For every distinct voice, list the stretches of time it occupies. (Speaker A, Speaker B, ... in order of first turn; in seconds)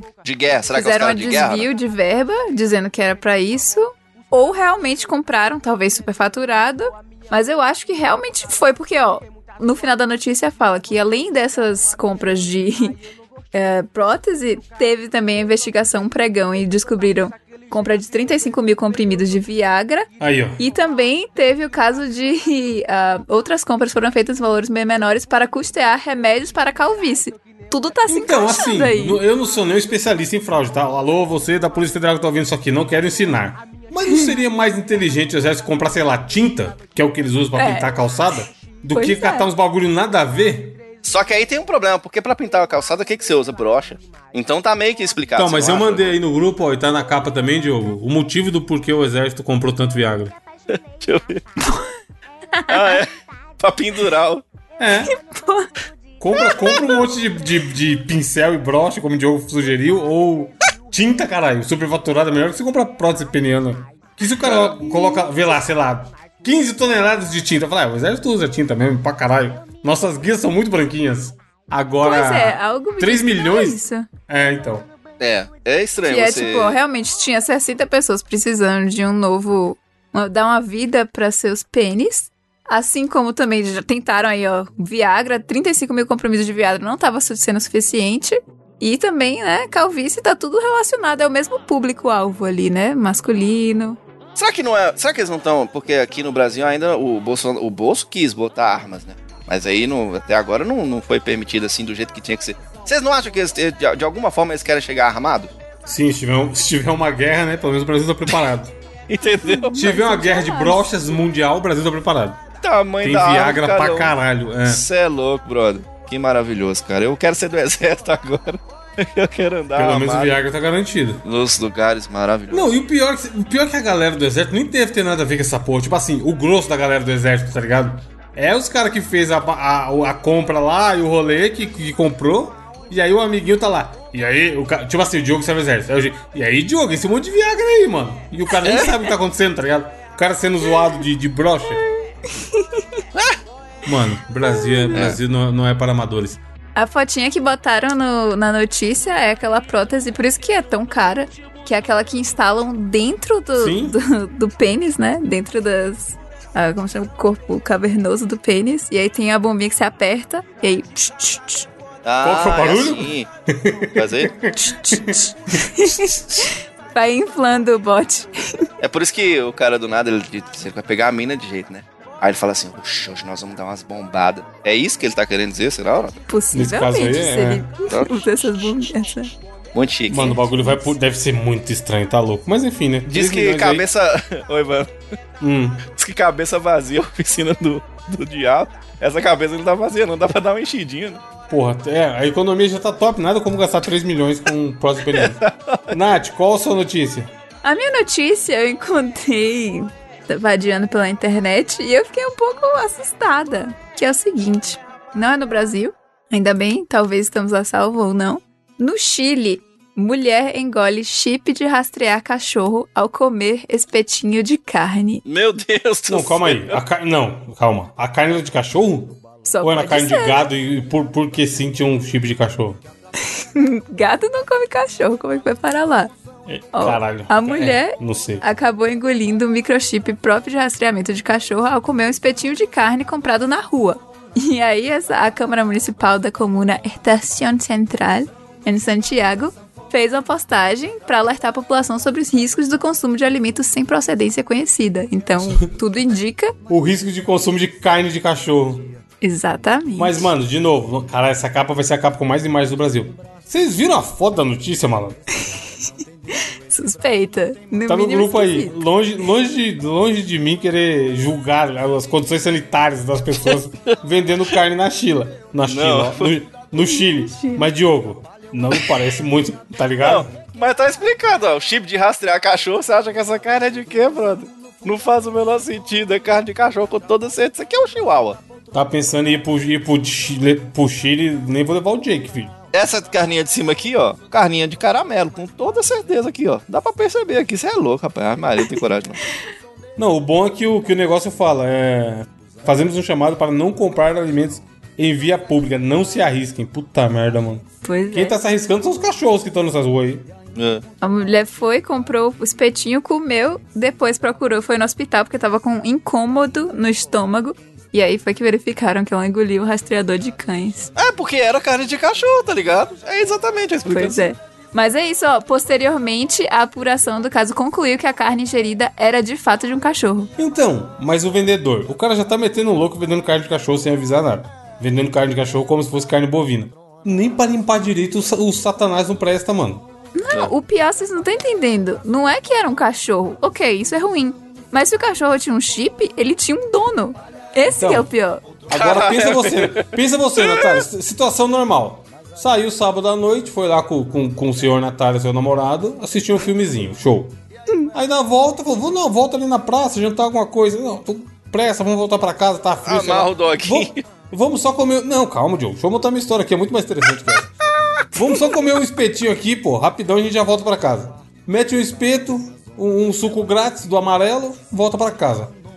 Speaker A: 0.2-1.7, 41.0-46.1, 50.7-51.4, 52.7-53.1, 53.6-54.4, 64.4-65.0, 75.2-76.8, 94.3-105.5, 109.1-109.8, 112.6-120.4, 121.2-122.8, 138.6-139.0, 144.9-145.2, 162.0-163.3, 163.9-164.3, 168.8-176.2, 177.9-178.7, 179.7-180.5, 183.1-184.9, 185.9-191.2, 195.1-195.9, 215.2-216.8, 263.4-264.0, 265.6-266.4, 270.0-278.4, 282.7-289.2, 300.6-300.8, 310.9-314.3, 338.7-340.8, 352.8-354.0
Speaker B: 0.7-13.0, 13.5-29.2, 34.0-34.3, 37.5-37.9, 38.9-39.5, 52.5-53.0, 55.1-55.7, 56.4-57.0, 72.0-74.1, 76.0-94.0, 109.4-110.8, 142.3-142.8, 144.4-145.0, 146.8-161.7, 164.6-168.3, 176.3-179.3, 180.6-180.9, 197.6-215.2, 219.4-220.4, 223.4-226.1, 226.7-246.5, 249.2-250.3, 256.7-258.8, 266.8-267.7, 297.8-298.4, 301.0-310.9, 313.9-320.3, 330.1-338.4
Speaker C: 20.2-20.6, 28.1-40.8, 45.4-50.3, 54.8-55.1, 56.2-74.9, 105.8-108.7, 109.7-112.4, 113.0-114.8, 119.8-121.2, 122.5-141.8, 143.8-146.4, 153.6-153.9, 162.2-166.4, 176.5-177.7, 180.1-183.8, 185.4-185.8, 191.5-195.4, 195.9-197.3, 216.1-222.8, 226.5-228.4, 246.7-248.9, 250.0-255.2, 257.9-270.3, 278.7-282.5, 290.0-300.3, 320.4-329.8, 337.8-338.1, 338.7-347.4, 347.9-357.5, 358.1-365.5